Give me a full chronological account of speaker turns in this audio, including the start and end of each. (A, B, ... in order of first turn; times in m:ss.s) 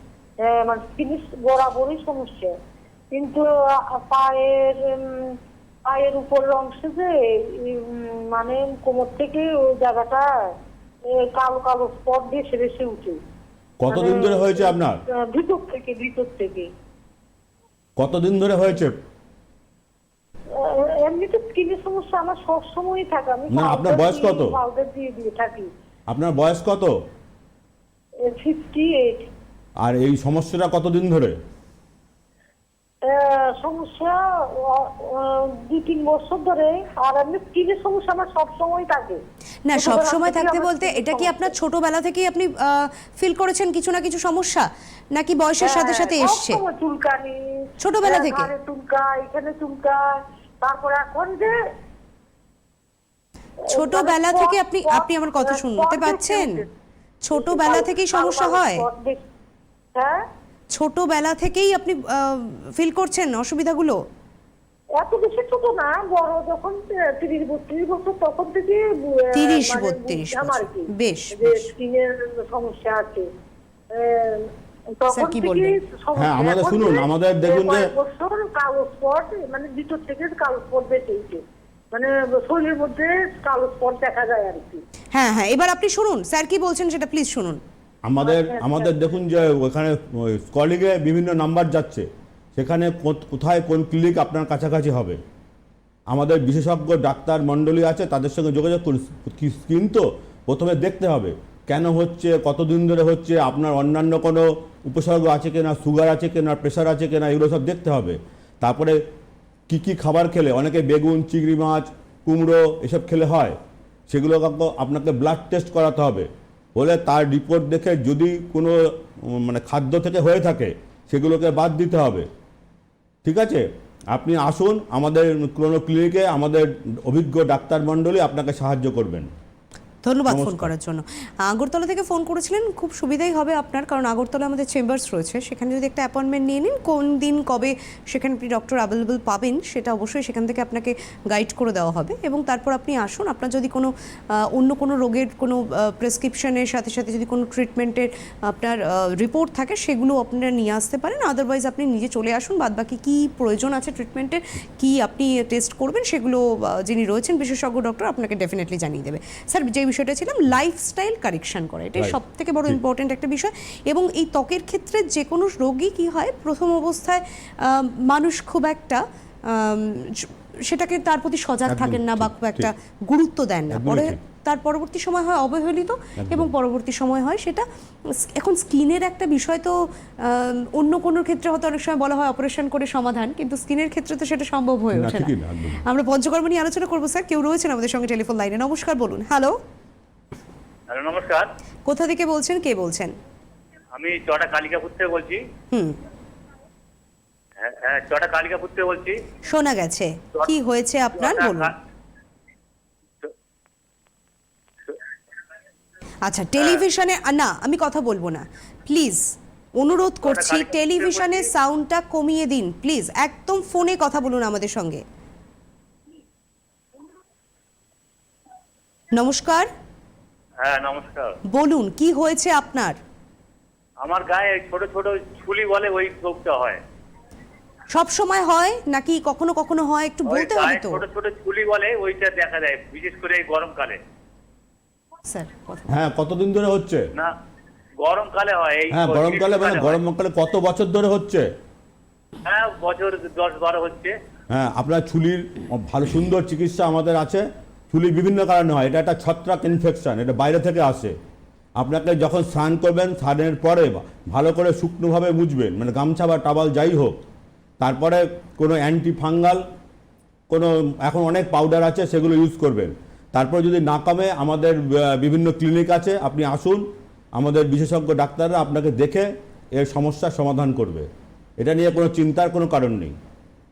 0:00.4-0:02.5 A
0:03.1-0:05.4 A
0:05.9-0:10.3 A
0:11.1-0:13.2 A
0:13.8-0:15.0 B
0:13.9-0:16.7 A
0:18.0-0:19.0 B
0:20.6-0:25.7 A
0:23.5-0:24.6 B
0:26.1-0:27.0 B
0:28.2-0:29.3 A
0:29.8-0:31.4 B
0:33.0-0:39.2 A
0:39.7-0:46.6 C
0:39.8-0:41.5 A
0:45.6-0:47.4 A
0:47.8-0:48.5 C
0:48.0-0:50.0 A
0:50.6-0:51.6 A
0:53.7-0:56.7 A
0:53.7-0:56.6 C
0:57.2-0:58.8 C
0:57.4-0:59.2 A
1:00.0-1:00.2 A
1:00.8-1:04.0 C
1:05.0-1:13.3 A
1:09.4-1:11.7 C
1:13.9-1:24.8 A
1:15.1-1:15.8 C
1:16.2-1:17.9 B
1:25.1-1:27.6 C
1:28.1-1:35.2 B
1:28.2-1:29.0 A
1:36.1-1:49.0 B
1:49.7-2:02.3 B
2:03.2-2:09.3 B
2:10.0-3:05.3 C
2:10.3-2:10.7 B
2:42.0-2:42.8 B
2:51.7-2:52.7 B
2:53.7-2:54.2 B
2:56.2-2:56.5 B
3:04.9-3:05.8 B
3:05.8-3:09.6 C
3:10.9-3:11.5 D
3:11.9-3:13.1 C
3:14.0-3:15.4 D
3:15.7-3:16.0 C
3:17.6-3:19.2 D
3:19.5-3:21.7 C
3:21.2-3:21.8 D
3:26.3-3:35.0 C
3:30.2-3:31.5 D
3:39.1-3:39.7 C
3:40.6-3:41.4 D
3:41.5-3:43.0 C
3:44.0-3:46.8 D
3:47.9-3:51.0 C
3:50.3-3:54.0 D
3:55.3-3:56.0 C
3:55.9-3:57.1 B
3:58.0-4:00.0 D
3:58.9-4:01.5 B
4:02.4-4:04.1 D
4:04.5-4:11.2 B
4:11.8-4:17.2 B
4:17.8-4:19.6 B
4:20.5-4:31.1 B
4:31.6-4:33.2 B